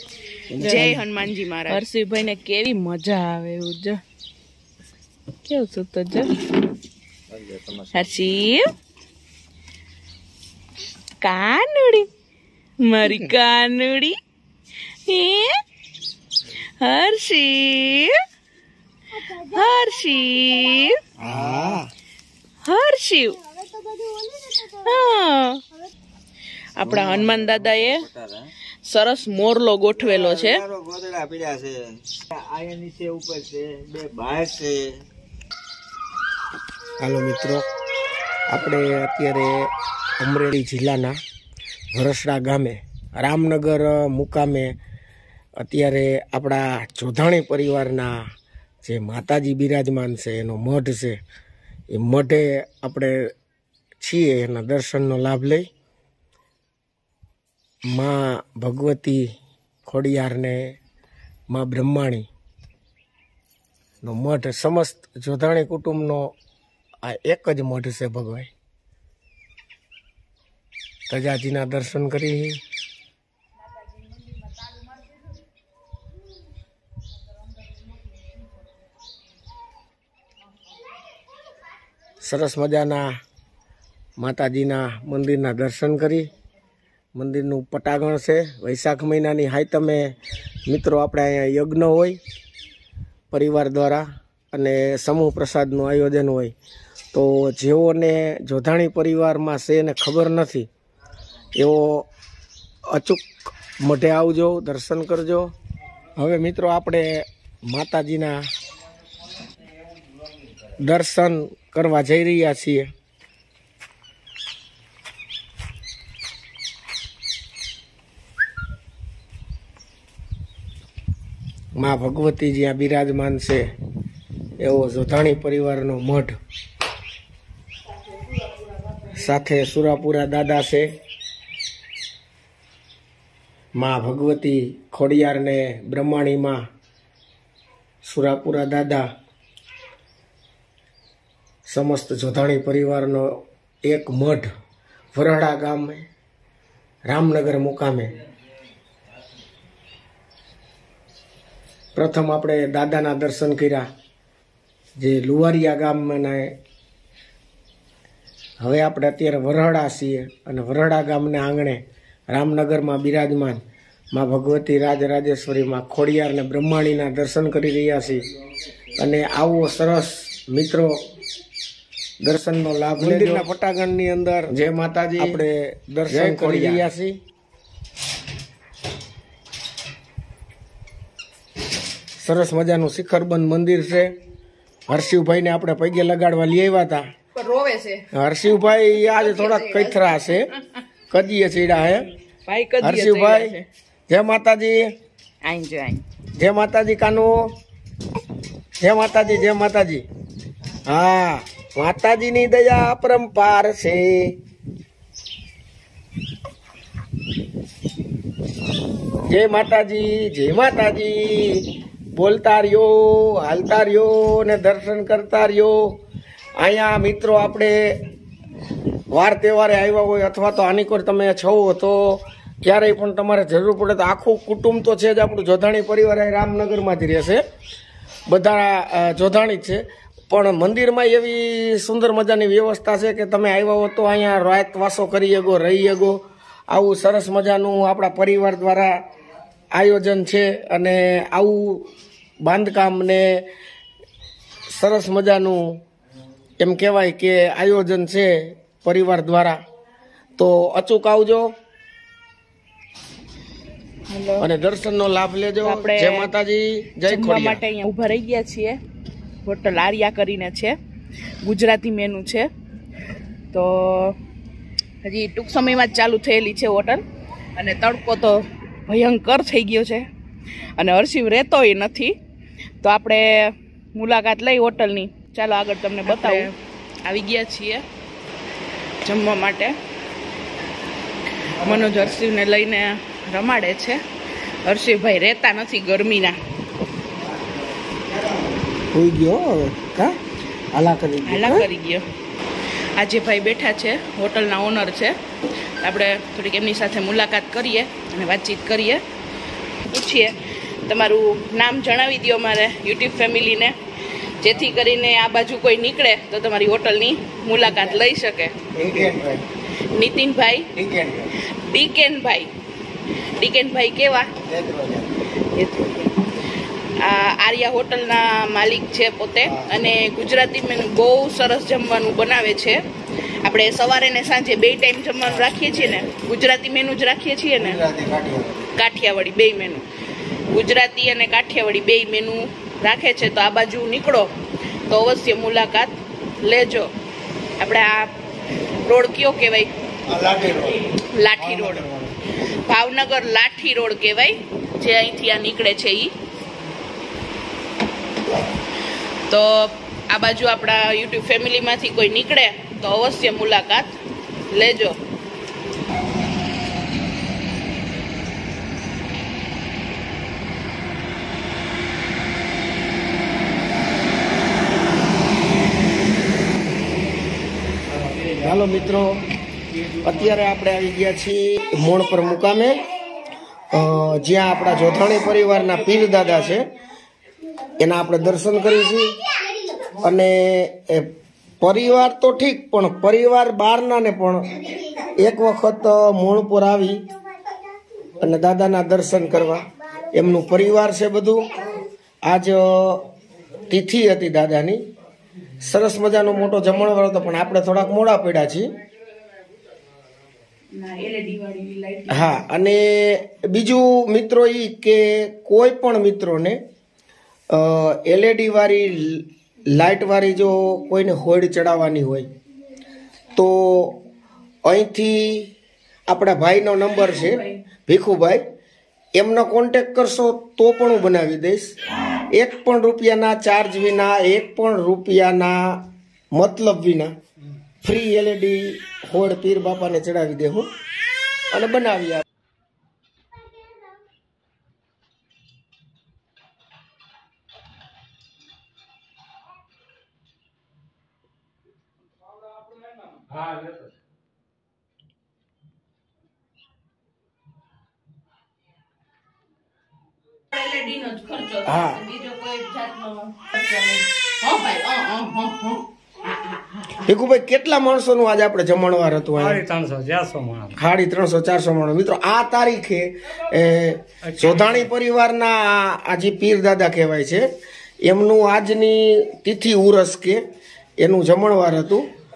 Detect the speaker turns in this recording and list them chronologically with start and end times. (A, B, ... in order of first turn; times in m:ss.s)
0:00.6-0:04.0 A
0:00.6-0:01.0 B
0:05.4-0:06.5 A
0:07.3-0:08.0 C
0:07.9-0:08.7 A
0:11.2-0:12.1 A
0:12.8-0:14.2 A
0:15.0-0:15.6 A
0:16.8-0:18.2 A
0:19.3-0:21.0 A
0:21.2-0:21.8 C
0:21.4-0:21.8 B
0:22.6-0:23.4 A
0:24.7-0:25.6 A
0:26.8-0:28.0 A
0:26.9-0:28.4 C
0:28.8-0:30.6 A
0:30.0-0:34.8 C
0:37.0-0:37.6 B
0:38.5-0:41.2 B
0:41.9-0:44.8 B
0:45.6-0:48.2 B
0:48.8-0:51.2 B
0:51.9-0:53.3 B
0:54.0-0:55.6 B
0:57.9-0:59.3 B
0:59.8-1:00.8 B
1:01.5-1:02.3 B
1:04.0-1:06.3 B
1:07.0-1:08.5 B
1:11.1-1:12.6 B
1:22.2-1:23.1 B
1:24.2-1:26.3 B
1:27.1-1:30.2 B
1:30.7-1:32.2 B
1:33.3-1:36.5 B
1:37.1-1:40.7 B
1:41.5-1:42.1 B
1:42.9-1:45.5 B
1:46.2-1:48.4 B
1:50.8-1:52.9 B
2:01.8-2:03.6 B
2:04.6-2:06.4 B
2:09.1-2:10.9 B
2:13.8-2:16.6 B
2:18.0-2:19.1 B
2:21.7-2:24.5 B
2:25.1-2:26.0 B
2:27.1-2:28.2 B
2:31.9-2:33.8 B
2:35.0-2:36.5 B
2:38.6-2:48.2 B
2:49.0-2:51.0 B
2:52.2-2:55.4 B
2:53.0-2:54.4 C
2:55.0-2:55.4 C
2:56.0-2:57.1 B
2:56.1-2:56.8 C
3:02.2-3:04.1 B
3:04.9-3:07.0 B
3:07.4-3:08.0 A
3:08.1-3:10.5 B
3:09.0-3:10.4 A
3:11.1-3:12.1 B
3:12.4-3:13.6 A
3:12.8-3:13.5 B
3:14.1-3:14.9 B
3:15.4-3:16.0 A
3:16.4-3:17.5 B
3:18.8-3:20.0 B
3:20.9-3:24.4 B
3:29.2-3:36.0 B
3:36.6-3:38.0 B
3:39.1-3:47.4 B
3:48.3-3:56.2 B
3:56.7-3:58.9 B
3:59.7-4:01.9 B
4:02.4-4:03.4 B
4:04.7-4:05.8 B
4:06.6-4:09.6 B
4:10.4-4:11.5 B
4:14.1-4:14.5 A
4:14.4-4:17.6 B
4:15.6-4:16.3 A
4:17.0-4:18.8 A
4:19.4-4:20.8 A
4:21.4-4:22.5 A
4:23.5-4:24.2 A
4:25.0-4:27.0 A
4:27.6-4:30.0 A
4:30.8-4:32.1 A
4:32.8-4:36.5 A
4:37.0-4:37.8 A
4:39.0-4:39.8 A
4:41.4-4:44.0 A
4:44.6-4:46.4 A
4:48.9-4:50.1 B
4:50.7-4:51.7 B
4:51.2-4:52.0 A
4:53.0-4:55.1 A
4:55.8-4:59.0 A
4:59.8-5:03.8 A
5:04.4-5:08.6 A
5:08.7-5:09.4 B
5:09.8-5:10.7 A
5:10.8-5:11.3 B
5:11.4-5:12.5 A
5:13.4-5:14.3 A
5:14.5-5:15.0 B
5:14.6-5:14.9 C
5:15.4-5:16.3 A
5:17.0-5:22.8 A
5:23.4-5:27.8 A
5:27.9-5:28.4 C
5:28.0-5:28.2 B
5:28.7-5:29.8 A
5:30.5-5:34.3 A
5:34.9-5:36.9 A
5:37.6-5:38.1 A
5:38.8-5:39.7 A
5:40.1-5:40.8 C
5:40.9-5:42.1 A
5:42.6-5:46.1 A
5:49.3-5:54.0 A
5:54.5-5:55.0 A
6:07.9-6:08.9 D
6:08.4-6:09.2 B
6:09.9-6:10.4 D
6:10.0-6:12.9 B
6:13.7-6:16.7 B
6:17.8-6:27.0 B
6:28.2-6:33.0 B
6:33.7-6:34.8 B
6:35.6-6:38.7 B
6:40.7-6:42.4 A
6:42.1-6:46.6 B
6:47.5-6:52.3 B
6:53.3-6:54.0 B
6:54.6-6:55.5 B
6:56.1-6:58.4 B
6:59.2-7:01.7 B
7:02.3-7:07.1 B
7:07.8-7:10.7 B
7:11.5-7:12.2 B
7:23.3-7:23.9 D
7:30.5-7:37.0 A
7:31.6-7:32.0 B
7:37.0-7:39.6 B
7:39.3-7:40.8 D
7:40.8-7:47.5 B
7:44.2-7:44.9 D
7:48.0-7:50.4 B
7:51.0-7:52.0 B